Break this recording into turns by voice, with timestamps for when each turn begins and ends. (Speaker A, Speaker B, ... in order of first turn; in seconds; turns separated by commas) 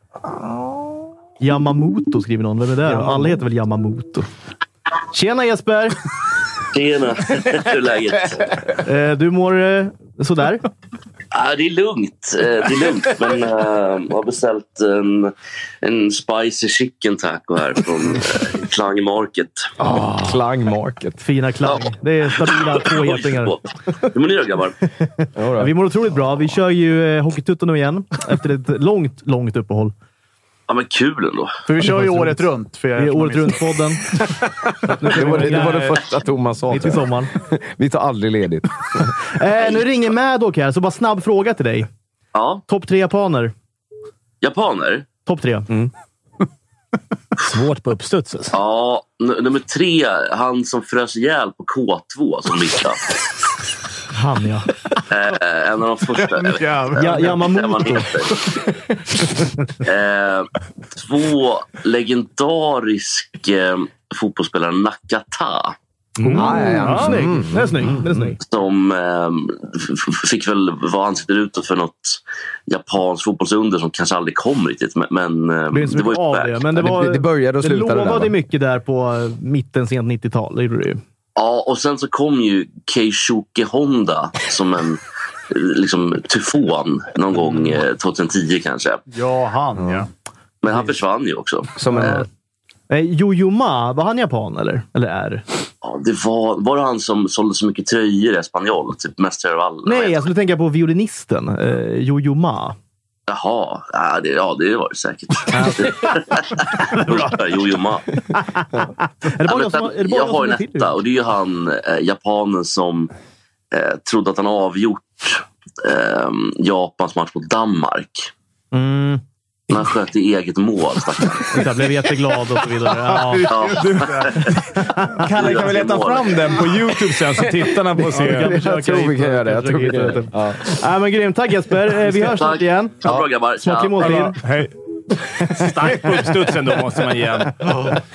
Speaker A: 0.3-0.8, Speaker B: 1.4-4.3, Speaker B: 5.1-6.0, Speaker C: 6.7-8.6, Speaker B: 8.8-10.7, Speaker C: 11.3-19.7, Speaker A: 19.8-21.2, Speaker B: 21.2-23.6, Speaker C: 22.4-24.8, Speaker B: 25.0-29.9, Speaker A: 25.4-25.8, Speaker C: 30.7-31.6, Speaker D: 31.7-33.7, Speaker B: 31.8-34.1, Speaker B: 34.9-36.0, Speaker A: 35.0-39.1, Speaker B: 36.7-37.3, Speaker B: 39.4-41.9, Speaker C: 42.3-42.6, Speaker B: 42.7-43.5, Speaker C: 44.4-45.1, Speaker B: 45.2-45.7, Speaker E: 47.4-48.6, Speaker C: 48.5-53.0, Speaker B: 54.1-54.7, Speaker C: 55.1-58.4, Speaker D: 56.1-57.5, Speaker B: 57.0-58.1, Speaker C: 59.8-65.8, Speaker E: 66.2-67.2, Speaker B: 66.3-68.4, Speaker A: 66.3-68.3, Speaker C: 68.4-76.7, Speaker B: 75.7-81.0, Speaker A: 76.7-78.3, Speaker C: 81.4-89.0, Speaker D: 89.1-90.1, Speaker C: 90.6-91.7, Speaker A: 91.8-92.3, Speaker B: 91.9-92.3, Speaker B: 92.9-95.5, Speaker C: 95.8-100.3, Speaker B: 99.8-102.8, Speaker C: 103.3-108.1, Speaker B: 105.5-106.2, Speaker B: 108.3-110.9, Speaker C: 109.4-113.1, Speaker C: 113.7-118.3, Speaker B: 118.7-119.2, Speaker C: 119.7-121.7, Speaker B: 121.5-123.6, Speaker D: 122.9-124.5, Speaker C: 123.5-124.5, Speaker B: 124.8-125.3, Speaker E: 125.2-128.5, Speaker C: 125.3-126.7, Speaker B: 128.1-134.4, Speaker A: 128.3-130.7, Speaker C: 132.0-134.2, Speaker E: 134.0-134.7, Speaker E: 135.4-137.7, Speaker B: 135.5-136.0